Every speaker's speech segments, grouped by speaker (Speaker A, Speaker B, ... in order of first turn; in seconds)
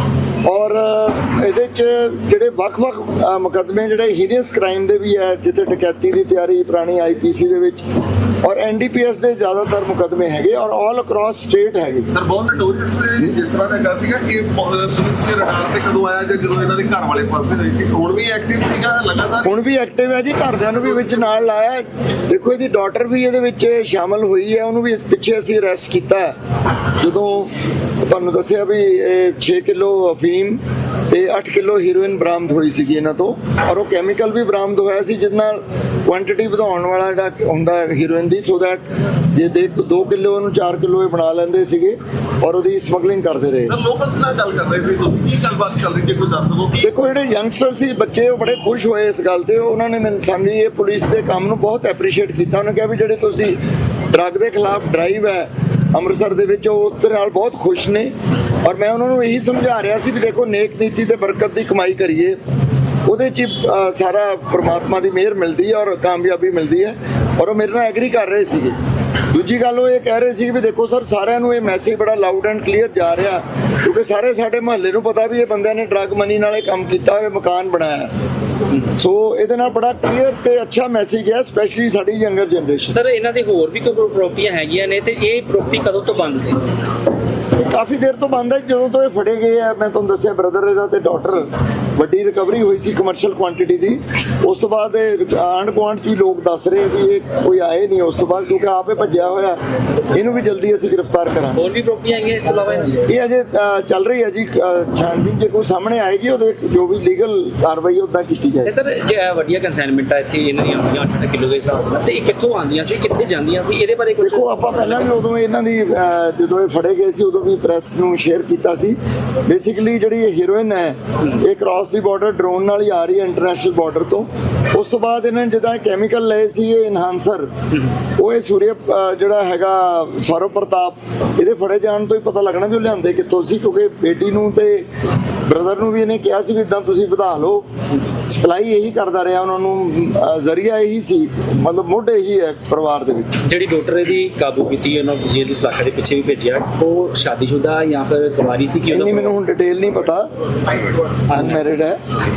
Speaker A: 0.4-7.8, 8.4-12.1, 19.4-26.3, 27.0-27.5, 28.0-43.7, 46.8-58.1, 58.6-62.4, 63.1-68.8, 69.3-78.1, 78.9-83.0, 87.6-101.7, 103.0-108.7, 114.2-127.5, 128.2-134.9, 135.5-137.7, 138.3-143.3, 148.9-150.3, 151.3-152.0
Speaker B: 12.1-19.6, 43.7-46.9
Speaker C: 82.9-86.6, 101.5-103.1, 108.7-115.0, 143.4-149.4, 151.3-151.7